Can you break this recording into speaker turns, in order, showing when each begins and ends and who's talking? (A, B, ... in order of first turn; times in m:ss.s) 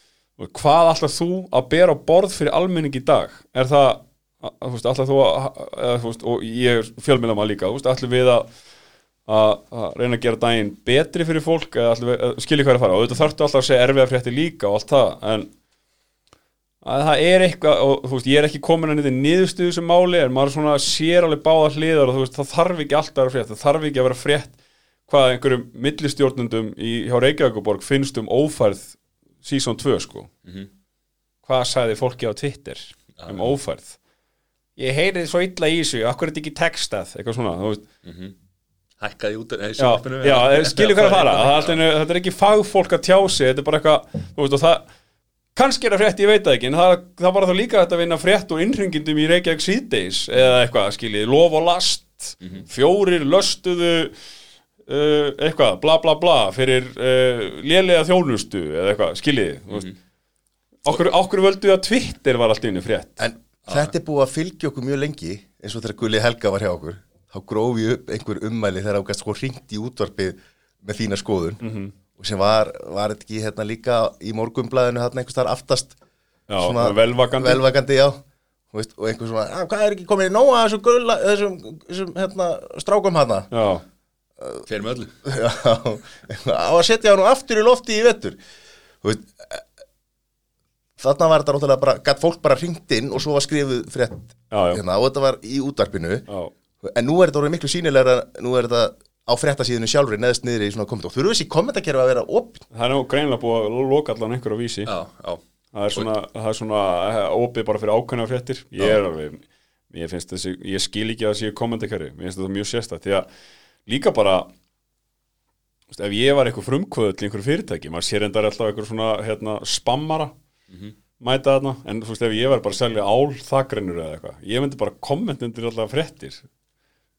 0:00.4-0:08.5 A
0:09.3-0:15.5 A
0:16.8-0:24.6 A
0:25.1-0:30.3 A
0:31.4-0:34.0 A
0:33.2-0:33.6 B
0:34.8-0:37.9 A
0:38.0-0:38.3 B
0:39.0-0:41.8 B
0:39.8-0:44.9 A
0:45.6-0:54.2 A
0:52.4-0:52.7 B
0:54.9-0:59.9 A
1:00.8-1:03.2 A
1:03.2-1:11.6 C
1:03.7-1:03.9 B
1:11.6-1:11.9 A
1:12.2-1:16.0 C
1:16.5-1:17.6 A
1:16.6-1:18.2 C
1:18.7-1:23.5 C
1:23.5-1:23.8 A
1:24.4-1:24.7 C
1:24.7-1:25.1 B
1:25.2-1:28.4 C
1:29.0-1:29.7 C
1:31.0-1:36.3 C
1:34.5-1:34.8 A
1:36.8-1:42.6 C
1:42.7-1:44.9 A
1:44.9-1:45.4 B
1:45.7-1:53.3 A
1:53.9-1:54.5 A
1:55.9-2:00.3 A
2:01.2-2:06.5 A